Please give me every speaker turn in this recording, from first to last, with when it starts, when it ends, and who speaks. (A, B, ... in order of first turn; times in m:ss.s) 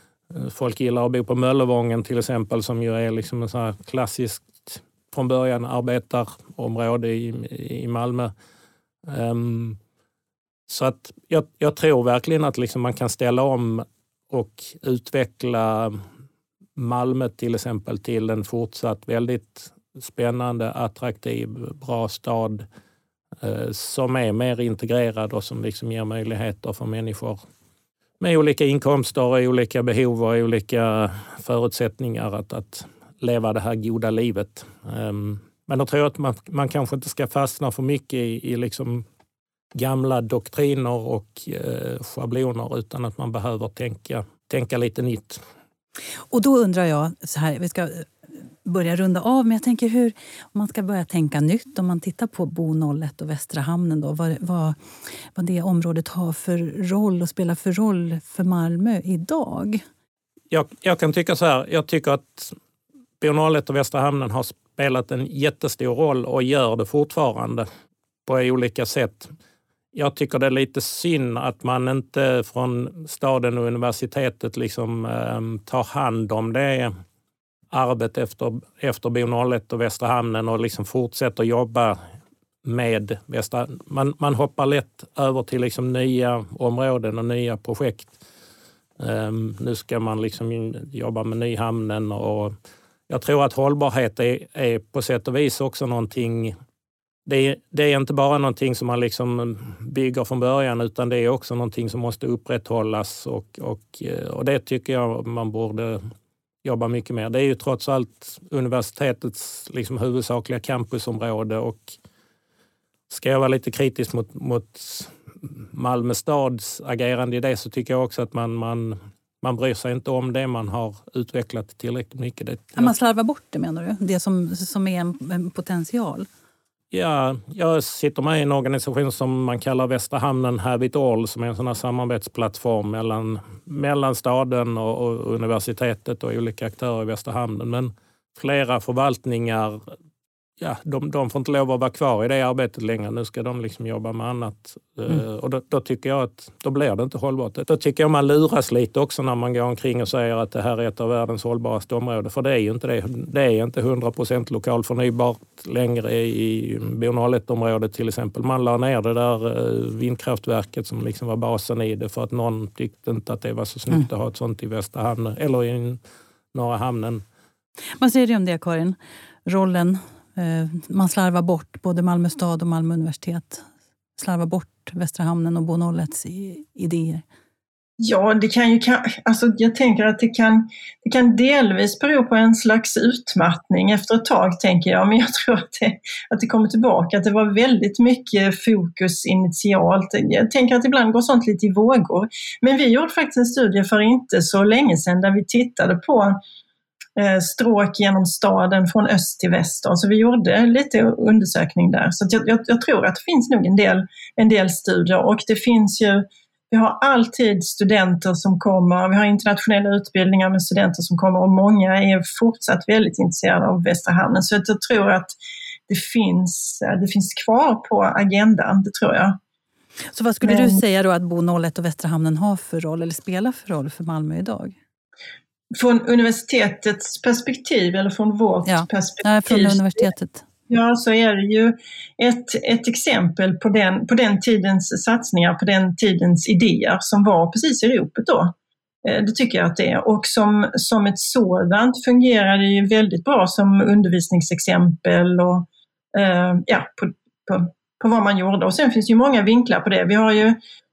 0:00.3-0:08.3 A
0:09.1-0:09.8 A
0:10.7-0:16.0 A
0:16.8-0:22.7 A
0:23.4-0:27.4 A
0:28.2-0:39.0 A
0:39.8-0:45.4 A
0:46.3-0:48.1 B
0:48.6-0:54.8 B
0:55.4-0:59.8 B
1:00.5-1:02.6 A
1:03.2-1:07.7 A
1:08.3-1:09.3 A
1:09.9-1:16.9 A
1:17.7-1:22.0 A
1:22.6-1:28.1 A
1:29.0-1:32.5 A
1:33.1-1:36.6 A
1:37.3-1:46.0 A
1:46.6-1:52.0 A
1:53.1-2:02.9 A
2:02.8-2:06.3 B
2:06.9-2:19.9 A
2:20.6-2:46.0 A
2:46.5-2:47.2 A
2:48.0-2:57.2 B
2:58.0-3:16.4 C
3:17.2-3:35.4 C
3:35.9-3:39.4 C
3:40.1-3:44.8 B
3:40.4-3:40.8 C
3:45.8-3:50.1 C
3:48.7-3:50.5 B
3:50.7-3:58.5 C
3:59.0-4:10.6 C